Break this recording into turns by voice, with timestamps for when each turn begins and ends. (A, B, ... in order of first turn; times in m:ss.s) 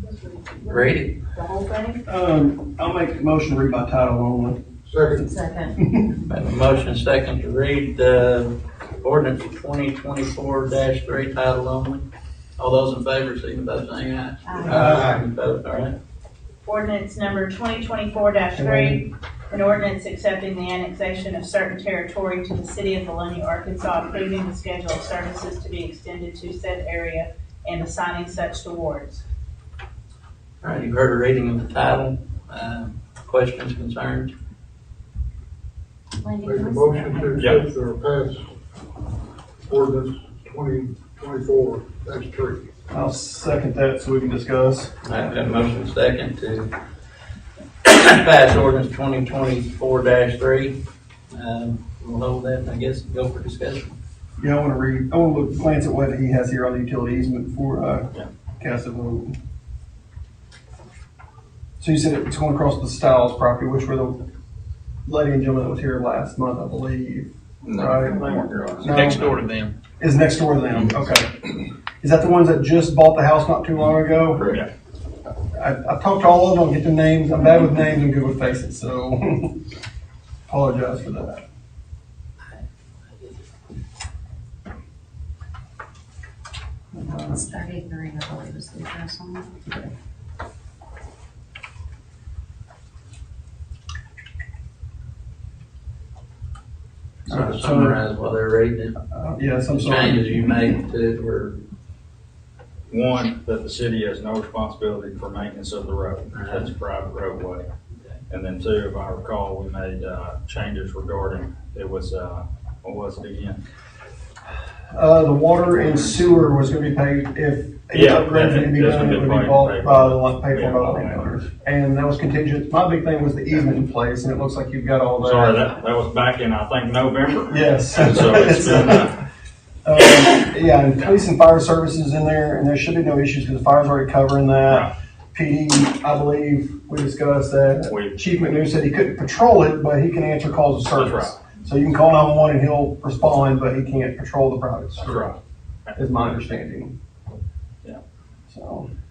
0:00.6-0:01.2 A
0:02.0-0:06.1 B
0:04.9-0:05.2 C
0:05.2-0:05.8 D
0:06.3-0:12.0 A
0:12.6-0:15.9 A
0:14.4-0:14.8 D
0:14.7-0:15.0 B
0:16.6-0:29.2 E
0:18.5-0:19.0 B
0:30.6-0:34.3 A
0:36.2-0:37.5 D
0:36.4-0:38.4 C
0:37.4-0:37.6 F
0:39.7-0:42.6 C
0:42.9-0:44.9 B
0:45.0-0:46.7 A
0:47.8-0:50.8 A
0:51.3-0:54.0 A
0:54.4-0:59.4 B
1:01.8-1:04.2 B
1:05.0-1:09.3 B
1:07.6-1:09.4 F
1:08.3-1:09.1 D
1:08.9-1:09.6 A
1:10.0-1:14.6 B
1:14.4-1:14.7 F
1:15.5-1:19.6 B
1:20.5-1:21.4 B
1:23.2-1:23.4 A
1:26.9-1:29.8 D
1:37.2-1:39.0 A
1:37.3-1:38.0 B
1:39.1-1:40.6 B
1:39.7-1:41.6 A
1:42.9-1:47.7 F
1:46.3-1:46.7 A
1:48.3-1:53.6 F
1:54.9-2:05.7 B
1:57.9-2:01.3 F
2:05.2-2:09.2 F
2:07.5-2:09.2 B
2:09.8-2:25.4 B
2:14.7-2:14.9 F
2:17.9-2:18.2 F
2:20.9-2:21.4 F
2:24.9-2:25.9 F
2:25.9-2:26.9 B
2:28.5-2:28.9 B